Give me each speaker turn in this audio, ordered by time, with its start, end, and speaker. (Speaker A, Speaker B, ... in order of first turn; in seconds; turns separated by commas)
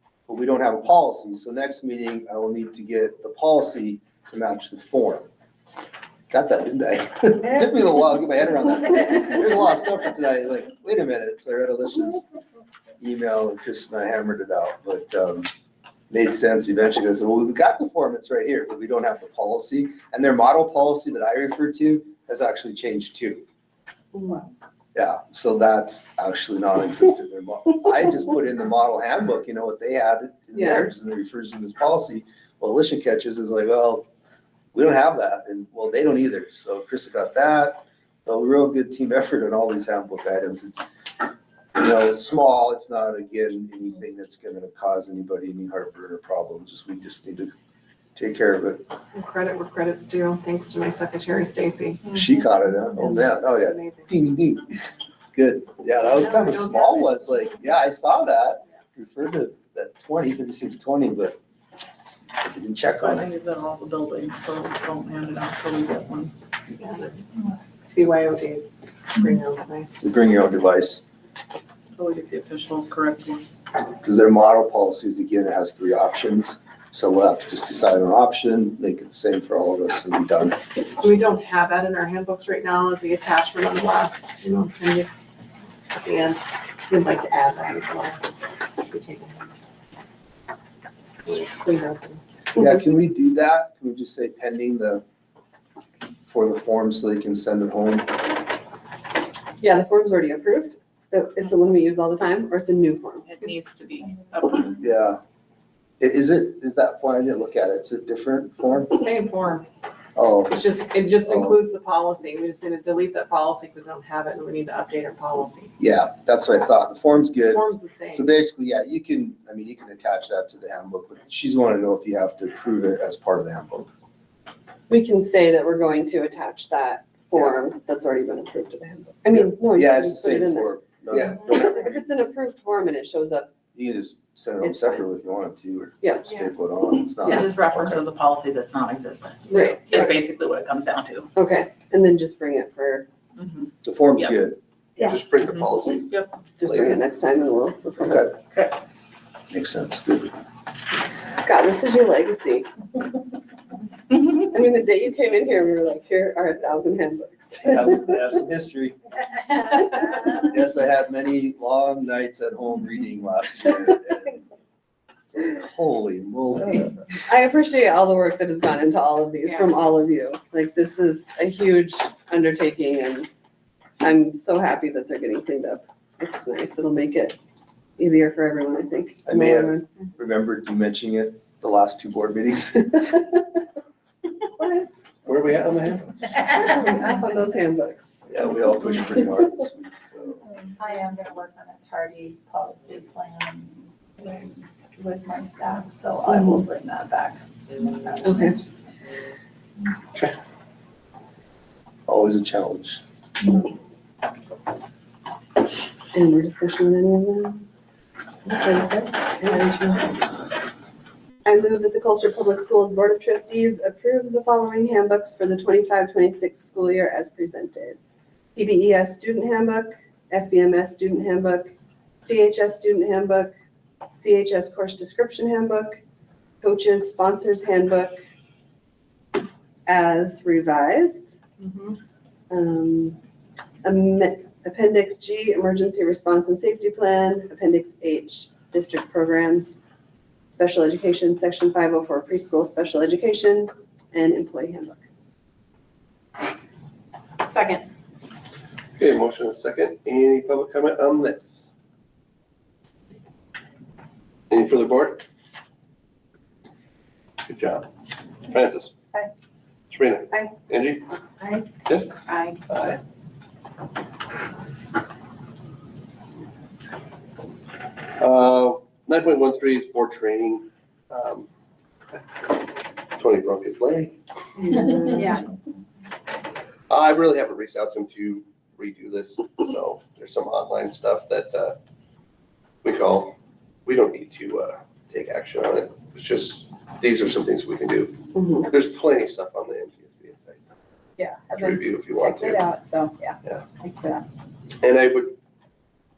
Speaker A: 0.3-5.3, Speaker A: 6.3-12.2, Speaker A: 13.0-15.5, Speaker A: 16.1-23.4, Speaker B: 24.1-24.5, Speaker A: 24.9-34.0, Speaker B: 30.5-30.9, Speaker A: 34.7-40.9, Speaker A: 41.8-47.5, Speaker A: 48.1-48.8, Speaker C: 49.1-52.1, Speaker A: 52.1-54.6, Speaker C: 53.5-54.1, Speaker A: 55.3-61.4, Speaker C: 56.0-57.4, Speaker A: 62.4-63.3, Speaker D: 63.0-66.3, Speaker C: 66.8-67.2, Speaker C: 67.9-70.0, Speaker A: 70.0-71.0, Speaker D: 72.0-73.4, Speaker A: 74.0-80.7, Speaker C: 81.0-85.3, Speaker C: 85.9-88.2, Speaker C: 88.8-89.5, Speaker C: 91.2-92.2, Speaker A: 92.5-95.0, Speaker A: 96.2-98.2, Speaker B: 99.6-103.3, Speaker D: 103.2-104.8, Speaker A: 104.8-105.2, Speaker A: 106.0-109.0, Speaker C: 108.8-109.7, Speaker A: 110.2-110.6, Speaker C: 110.5-115.7, Speaker A: 111.2-111.6, Speaker A: 115.8-123.9, Speaker C: 117.5-118.3, Speaker B: 124.9-133.5, Speaker A: 129.3-132.0, Speaker A: 133.7-138.0, Speaker B: 134.6-135.0, Speaker B: 136.0-136.4, Speaker D: 137.2-141.3, Speaker B: 139.5-140.1, Speaker B: 141.3-143.1, Speaker D: 143.4-143.7, Speaker A: 143.8-144.6, Speaker E: 145.0-147.0, Speaker B: 146.6-148.3, Speaker A: 148.0-148.3, Speaker A: 149.5-150.3, Speaker B: 151.3-152.7, Speaker B: 154.1-157.9, Speaker A: 157.6-159.0, Speaker A: 160.2-164.4, Speaker A: 165.3-167.1, Speaker B: 167.2-173.3, Speaker B: 174.0-177.3, Speaker B: 178.0-179.8, Speaker A: 179.2-183.2, Speaker B: 184.6-184.9, Speaker E: 185.2-186.5, Speaker B: 186.4-188.1, Speaker A: 188.3-190.4, Speaker D: 190.8-192.2, Speaker F: 191.4-193.6, Speaker D: 193.6-194.4, Speaker F: 194.4-197.4, Speaker D: 195.4-196.0, Speaker B: 196.3-196.6, Speaker D: 197.7-198.0, Speaker F: 198.0-198.5, Speaker B: 198.2-198.6, Speaker A: 202.1-203.0, Speaker B: 206.1-207.7, Speaker B: 208.4-210.2, Speaker B: 211.4-218.0, Speaker B: 218.5-221.7, Speaker B: 222.2-223.5, Speaker B: 224.2-226.0, Speaker B: 226.6-228.2, Speaker B: 229.8-231.4, Speaker C: 231.6-232.0, Speaker B: 232.5-233.2, Speaker B: 233.8-239.8, Speaker B: 240.5-245.0, Speaker D: 247.5-247.8, Speaker E: 249.0-251.7, Speaker E: 254.5-255.2, Speaker E: 257.4-257.9, Speaker E: 258.5-258.9, Speaker E: 259.9-261.0, Speaker F: 261.4-261.6, Speaker E: 261.9-263.0, Speaker E: 268.2-271.5, Speaker E: 273.1-274.1, Speaker B: 274.6-275.2, Speaker E: 276.9-281.7, Speaker E: 282.8-283.3, Speaker E: 283.9-290.7, Speaker B: 288.3-288.7, Speaker F: 291.2-294.2, Speaker E: 291.5-292.6, Speaker E: 294.8-295.3